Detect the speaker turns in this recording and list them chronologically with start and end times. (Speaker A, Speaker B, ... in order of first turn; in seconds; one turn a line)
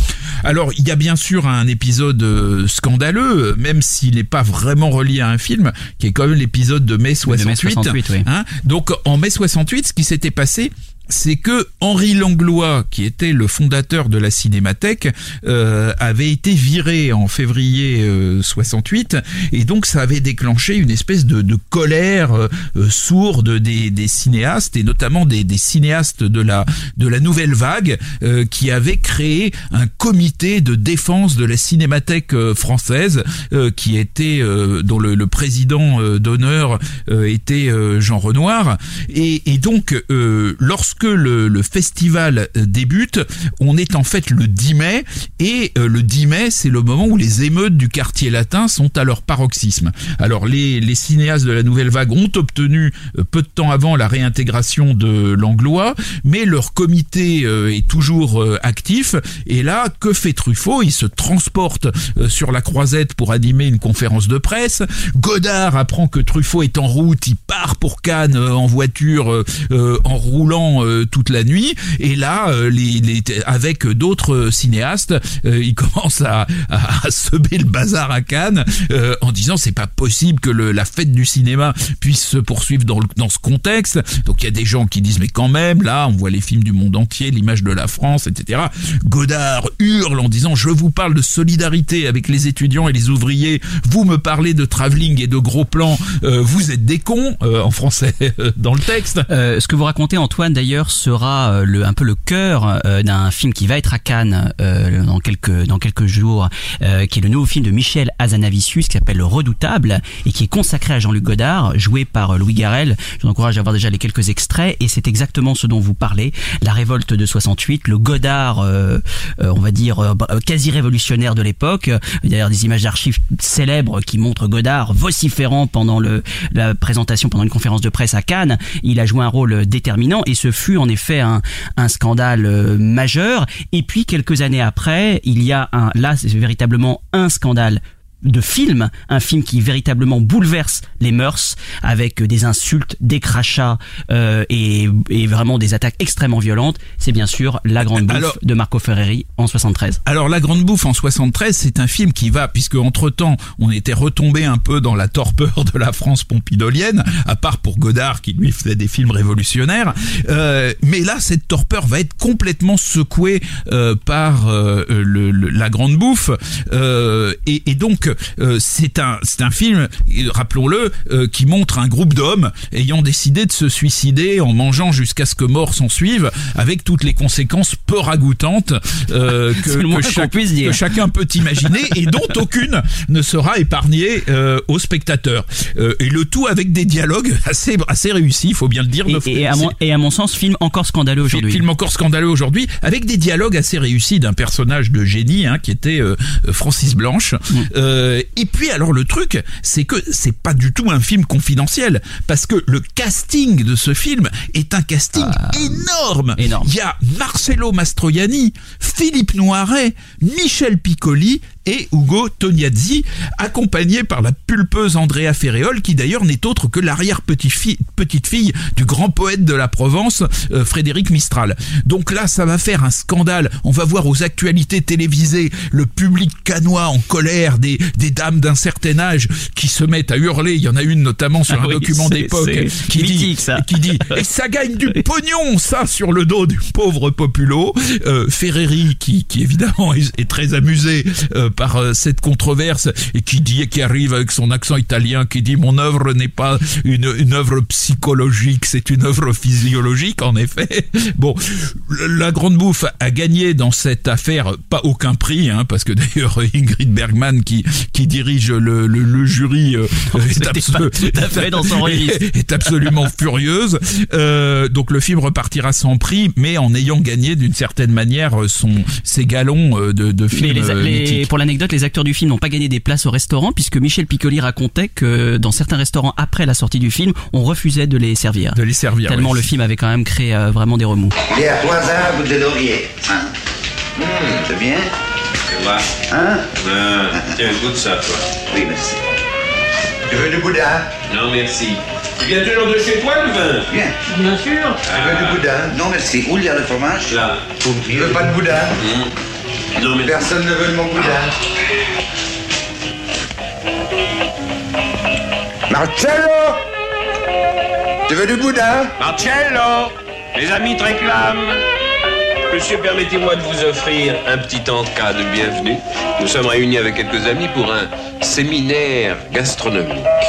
Speaker A: 0.4-99.2
Speaker B: 7.2-8.2
Speaker B: 99.3-150.0
Speaker A: 147.8-148.4
Speaker A: 150.0-189.7
Speaker B: 179.5-180.8
Speaker B: 189.1-191.7
Speaker A: 191.2-271.3
Speaker B: 205.1-206.7
Speaker B: 231.5-234.2
Speaker B: 260.1-262.9
Speaker B: 270.3-281.1
Speaker A: 278.5-279.4
Speaker C: 281.3-283.3
Speaker C: 284.1-284.9
Speaker D: 285.5-285.9
Speaker C: 286.0-286.5
Speaker D: 286.5-288.2
Speaker C: 288.5-289.0
Speaker C: 290.1-290.9
Speaker D: 291.1-295.4
Speaker C: 293.7-293.9
Speaker C: 295.0-297.1
Speaker D: 297.1-299.1
Speaker C: 297.6-298.8
Speaker D: 299.8-300.4
Speaker C: 300.0-301.3
Speaker C: 305.7-306.6
Speaker C: 308.1-308.9
Speaker D: 309.0-311.6
Speaker D: 312.5-320.1